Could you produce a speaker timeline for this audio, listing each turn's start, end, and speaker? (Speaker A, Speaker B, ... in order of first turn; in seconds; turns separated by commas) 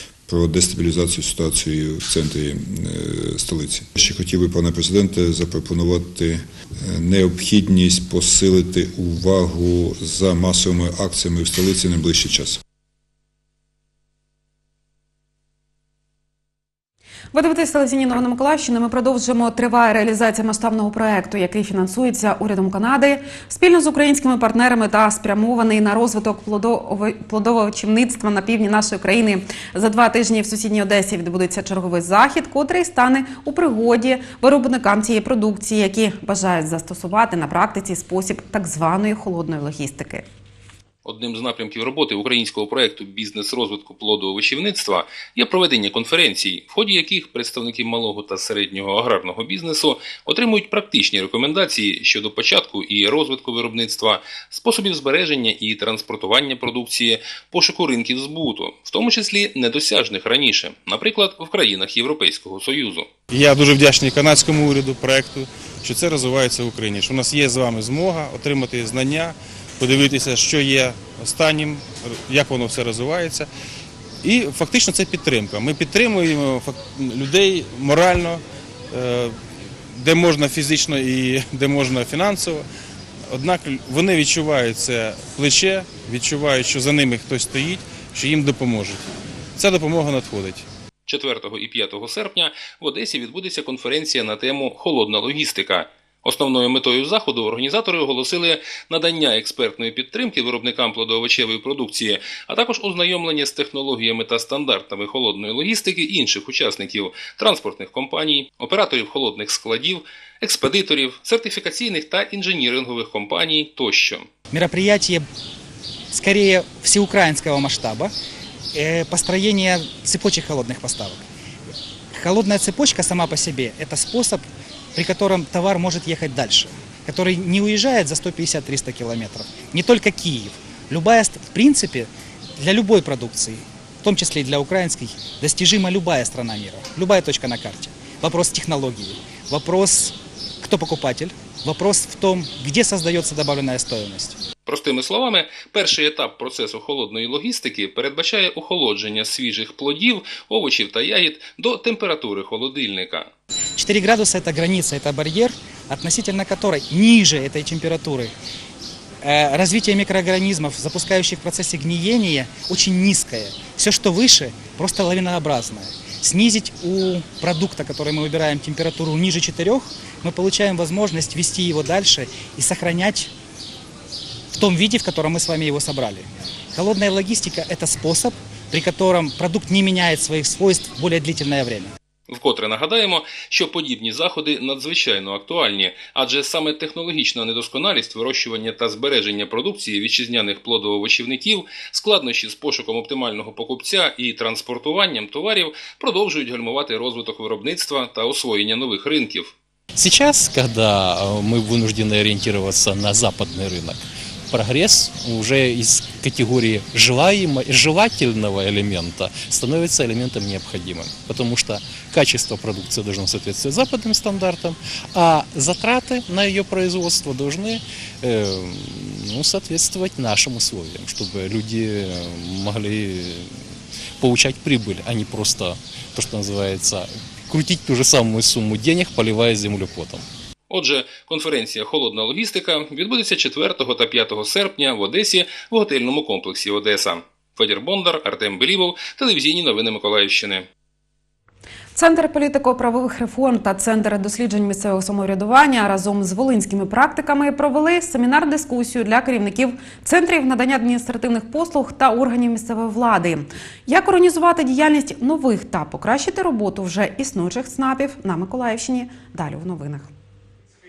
Speaker A: 0.3-12.6, Speaker B: 17.3-40.2, Speaker C: 41.0-63.1, Speaker D: 63.3-73.5, Speaker D: 74.2-79.4, Speaker D: 79.9-82.6, Speaker D: 83.3-89.0, Speaker D: 89.6-90.6, Speaker C: 91.1-114.3, Speaker E: 114.5-115.2, Speaker E: 116.1-118.1, Speaker E: 118.7-121.2, Speaker E: 122.1-144.4, Speaker C: 144.7-153.3, Speaker E: 153.8-158.3, Speaker E: 159.2-173.3, Speaker E: 174.5-181.9, Speaker C: 182.3-199.5, Speaker F: 199.9-223.6, Speaker F: 224.2-230.2, Speaker C: 230.7-240.7, Speaker B: 241.9-260.1